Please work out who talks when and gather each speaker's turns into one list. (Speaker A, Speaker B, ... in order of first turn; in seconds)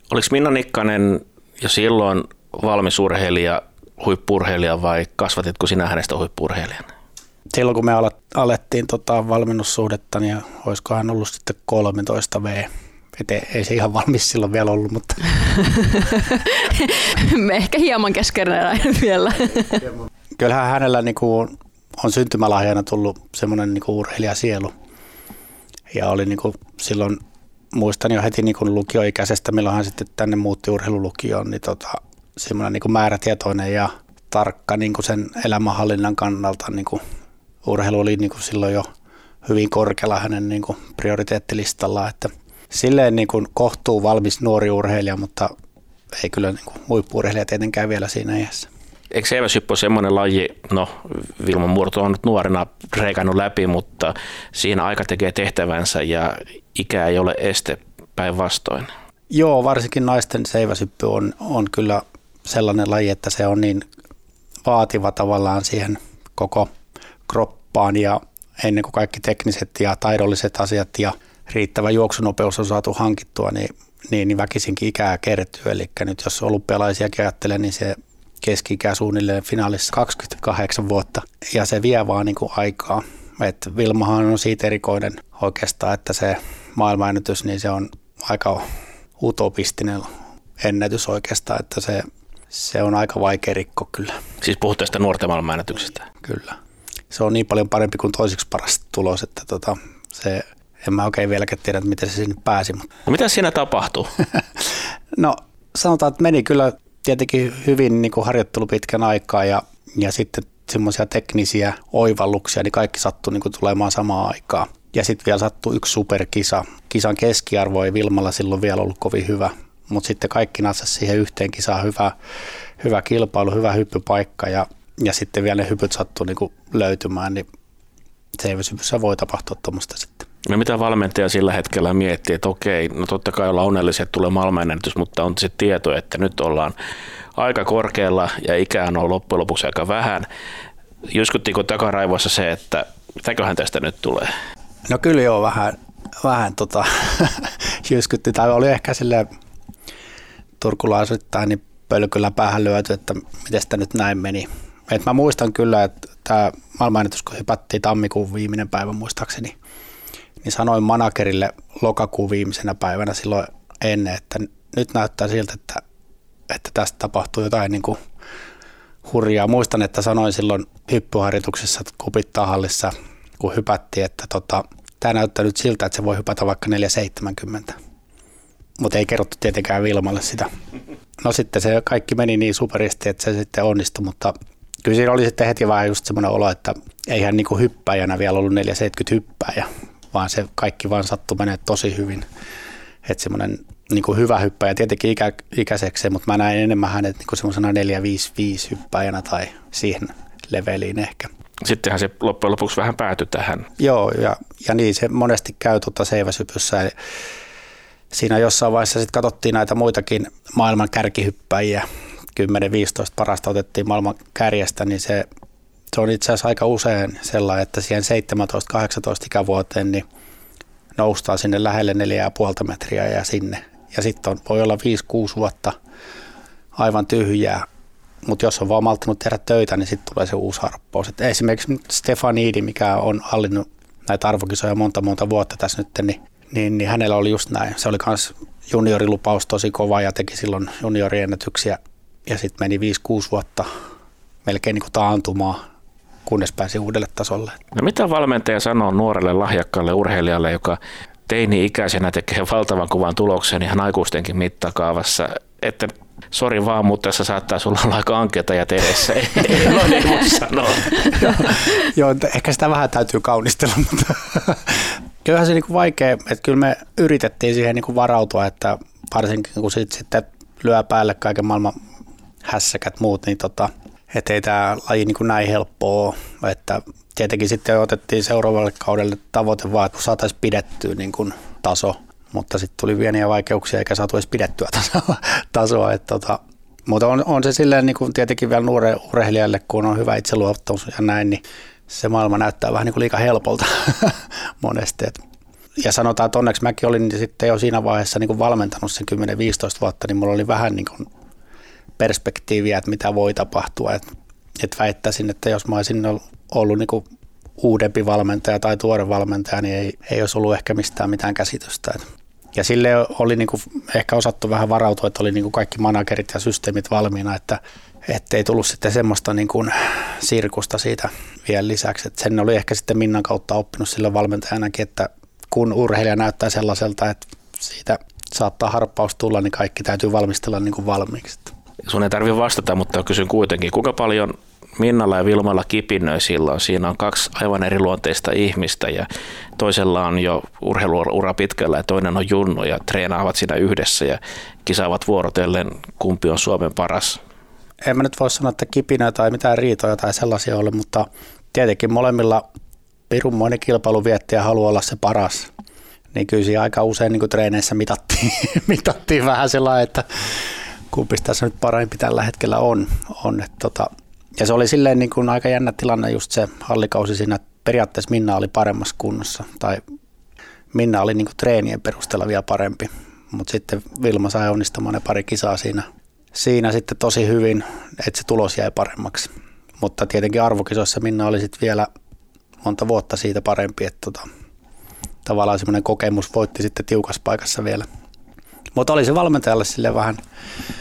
Speaker A: 0.1-6.9, 49.1-58.9, 94.4-96.0, 103.1-104.1, 130.4-136.7, 137.4-140.3, 141.1-144.3, 201.6-203.7, 247.7-261.6, 331.9-347.2
Speaker B: 7.5-15.2, 20.4-24.7, 25.9-27.2, 27.7-37.0, 37.6-38.9, 39.4-45.5, 46.1-48.7, 59.3-63.9, 64.7-66.7, 67.3-88.6, 89.2-90.1, 90.6-94.2, 96.2-96.6, 97.1-102.9, 105.2-122.1, 122.8-127.5, 128.4-130.3, 144.9-149.3, 150.6-159.6, 160.4-165.8, 166.5-168.0, 169.0-177.8, 178.8-180.5, 181.2-192.3, 193.0-201.3, 203.8-206.9, 208.1-215.3, 215.9-220.1, 220.9-225.8, 226.8-227.7, 228.2-243.7, 244.4-245.6, 246.3-247.6, 261.2-271.8, 272.4-295.2, 295.8-301.1, 302.0-304.0, 304.6-307.0, 307.6-312.0, 312.6-331.5, 347.8-352.4, 353.1-355.5, 356.1-369.8, 370.7-381.9, 382.6-384.3, 385.2-387.9, 388.8-390.2
Speaker C: 15.6-19.9